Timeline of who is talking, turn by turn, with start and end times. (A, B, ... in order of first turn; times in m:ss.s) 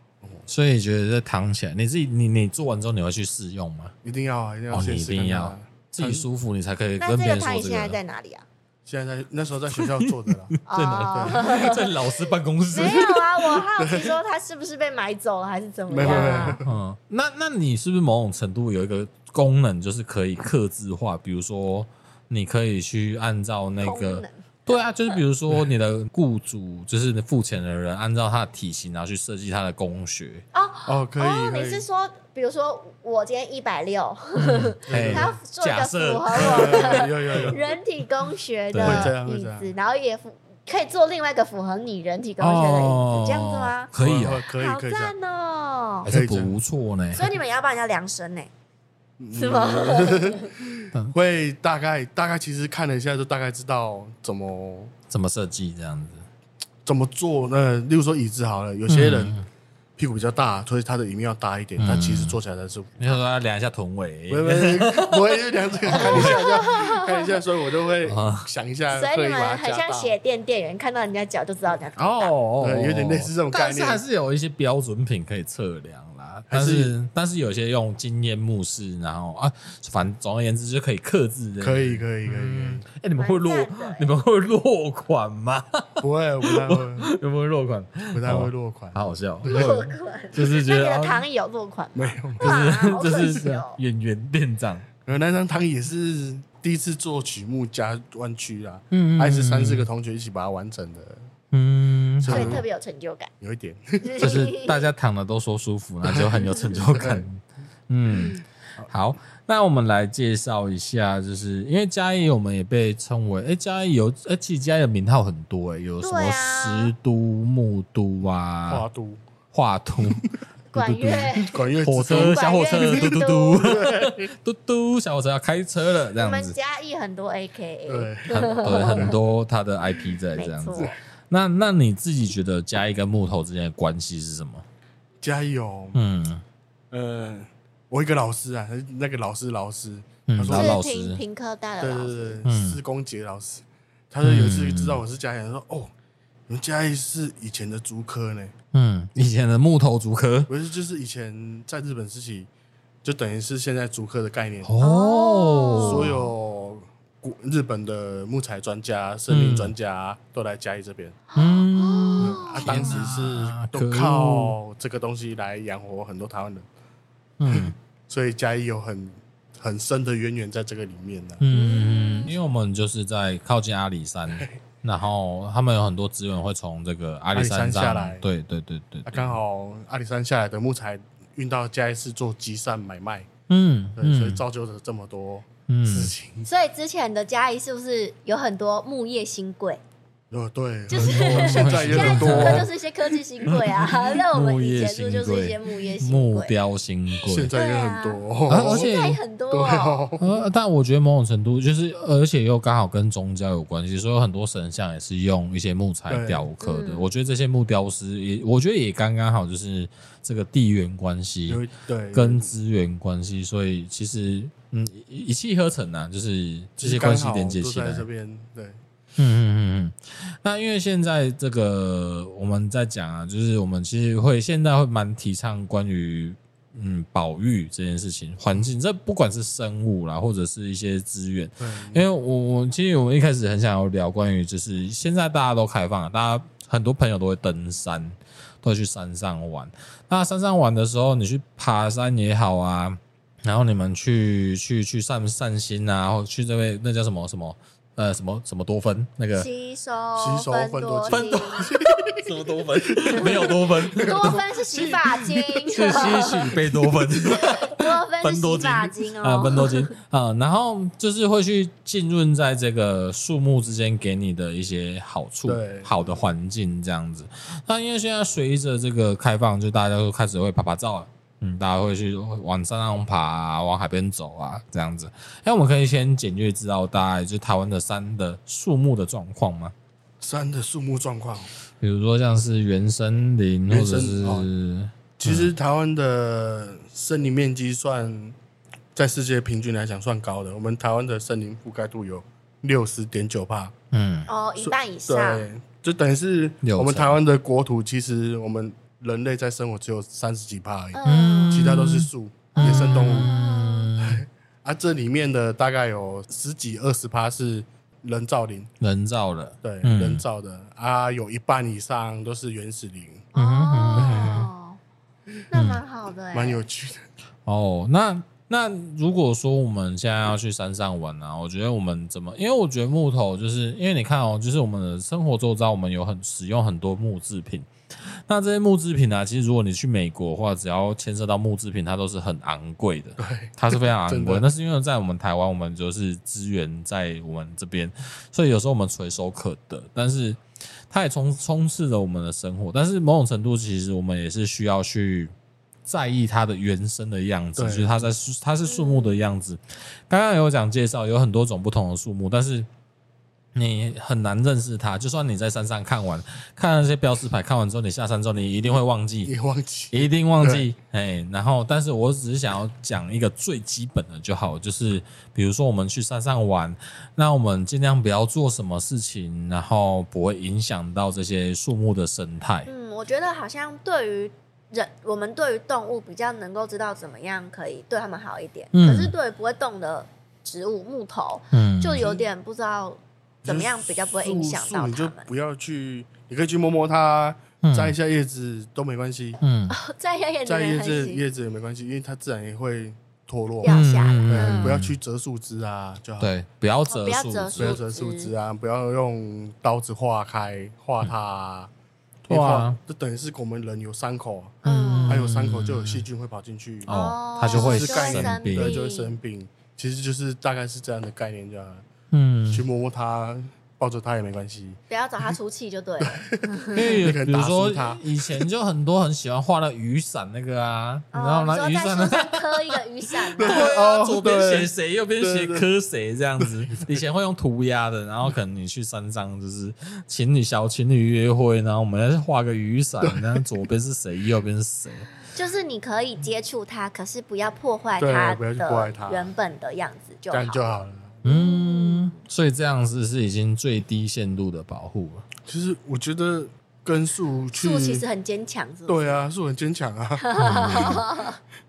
0:00.5-0:03.9 A
0:04.0-0:06.3 B
0:04.7-0:08.0 A
0:07.0-0:08.5 C
0:08.9-0:10.6 B
0:09.8-0:13.6 A
0:10.7-0:11.9 C
0:11.1-0:11.5 B
0:12.7-0:16.6 C
0:13.8-0:14.2 B
0:15.9-0:16.8 B
0:16.0-0:30.4 A
0:23.8-0:25.2 C
0:30.5-0:43.9 C
0:30.9-0:31.8 B
0:34.4-0:37.6 A
0:34.9-0:35.4 B
0:36.3-0:37.6 B
0:38.7-0:39.1 A
0:38.8-0:39.7 B
0:42.4-0:44.4 A
0:44.0-0:45.2 B
0:44.5-0:46.1 C
0:46.0-0:47.3 A
0:46.1-0:46.6 B
0:47.1-0:48.5 C
0:49.2-0:54.9 B
0:49.3-0:50.5 C
0:55.1-0:56.2 A
0:56.9-0:59.4 B
0:58.9-0:59.5 A
1:00.0-1:03.2 B
1:01.8-1:02.4 A
1:03.0-1:05.3 A
1:04.3-1:10.2 B
1:05.9-1:06.7 A
1:05.9-1:07.4 C
1:08.0-1:08.5 A
1:08.9-1:12.3 C
1:12.0-1:31.2 A
1:12.6-1:14.0 B
1:16.5-1:16.9 B
1:21.6-1:22.8 B
1:23.2-1:24.1 C
1:26.0-1:27.1 B
1:28.1-1:29.8 B
1:29.5-1:33.8 C
1:31.9-1:32.6 B
1:32.4-1:34.9 A
1:35.1-1:41.2 B
1:38.9-1:39.9 A
1:41.5-1:42.6 A
1:42.2-1:42.6 B
1:42.3-1:43.3 C
1:43.4-1:44.4 B
1:44.0-1:44.9 C
1:44.2-1:58.8 A
1:46.0-1:47.2 B
1:56.0-1:56.9 C
1:58.7-1:59.2 B
1:59.5-2:06.6 A
2:00.7-2:03.8 C
2:01.4-2:04.3 B
2:06.2-2:09.2 C
2:07.9-2:09.2 B
2:08.3-2:14.6 A
2:10.4-2:10.9 C
2:15.2-2:16.0 B
2:15.9-2:16.4 A
2:16.9-2:20.8 B
2:20.3-2:21.2 A
2:20.5-2:22.4 C
2:21.8-2:25.9 B
2:22.4-2:22.8 A
2:24.2-2:25.0 A
2:26.5-2:28.5 B
2:28.7-2:30.5 A
2:30.5-2:32.5 B
2:33.0-2:34.7 B
2:34.6-2:36.2 A
2:34.8-2:36.2 C
2:35.8-2:41.2 B
2:39.3-2:39.7 A
2:41.3-2:43.0 C
2:41.4-2:44.6 A
2:42.2-2:46.7 B
2:47.4-2:47.8 A
2:47.5-2:51.4 B
2:51.4-2:59.4 A
2:51.5-2:52.3 C
2:57.3-2:58.2 B
2:59.1-3:03.3 B
3:03.5-3:04.4 A
3:04.0-3:06.5 B
3:05.7-3:06.1 A
3:06.5-3:09.8 C
3:10.3-3:12.7 B
3:10.9-3:16.5 C
3:11.0-3:12.7 A
3:13.6-3:17.5 A
3:17.2-3:19.0 B
3:17.5-3:20.1 C
3:18.5-3:19.2 A
3:19.5-3:20.4 B
3:20.2-3:38.0 A
3:26.1-3:26.5 B
3:26.6-3:27.1 C
3:31.5-3:32.5 B
3:36.8-3:38.8 B
3:39.2-4:09.5 A
3:51.6-3:52.1 B
4:09.4-4:11.7 C
4:10.2-4:15.3 B
4:11.1-4:39.7 A
4:14.0-4:16.6 C
4:15.9-4:17.4 B
4:17.4-4:19.9 C
4:25.4-4:26.3 B
4:40.2-4:41.5 B
4:41.8-4:45.5 A
4:43.7-4:44.5 B
4:45.2-4:48.4 B
4:49.0-4:53.7 B
4:53.9-4:54.3 A
4:54.3-4:55.5 C
4:54.6-5:03.3 B
4:56.6-4:57.2 A
5:00.9-5:01.7 C
5:01.0-5:04.2 A
5:02.5-5:03.9 C
5:04.0-5:08.7 B
5:08.8-5:10.2 A
5:09.6-5:13.3 B
5:13.3-5:14.8 C
5:13.4-5:14.5 A
5:14.0-5:14.4 B
5:15.5-5:16.6 C
5:15.5-5:15.8 A
5:16.3-5:17.1 B
5:17.5-5:45.3 A
5:33.2-5:34.5 B
5:45.9-5:52.7 A
5:47.6-5:48.1 B
5:48.8-5:49.2 C
5:53.5-5:59.3 A
5:59.2-6:00.7 B
5:59.9-6:12.7 A
6:12.7-6:25.3 C
6:18.7-6:19.2 A
6:21.5-6:22.1 A
6:23.4-6:29.4 B
6:27.6-6:28.0 A
6:29.4-6:29.8 A
6:29.7-6:31.2 C
6:30.5-6:36.3 B
6:33.6-6:34.8 C
6:33.7-6:34.9 A
6:36.2-6:37.8 A
6:36.9-6:38.3 C
6:37.6-6:41.7 B
6:42.2-6:46.9 B
6:42.3-6:42.8 A
6:44.6-6:45.2 C
6:44.6-6:46.0 A
6:46.9-6:49.2 C
6:46.9-6:48.8 A
6:47.5-6:51.9 B
6:52.1-6:52.6 A
6:52.5-6:54.8 B
6:54.9-6:56.9 C
6:56.0-6:58.5 B
6:56.7-7:02.8 A
7:01.1-7:03.8 C
7:03.3-7:05.7 B
7:03.4-7:15.1 A
7:13.0-7:13.5 B
7:15.3-7:20.6 C
7:18.0-7:19.3 B
7:20.3-7:21.2 B
7:21.2-7:22.1 C
7:21.2-7:25.3 A
7:25.5-7:28.0 B
7:27.6-7:29.0 C
7:28.9-7:31.0 B
7:30.2-7:31.4 C
7:30.4-7:31.0 A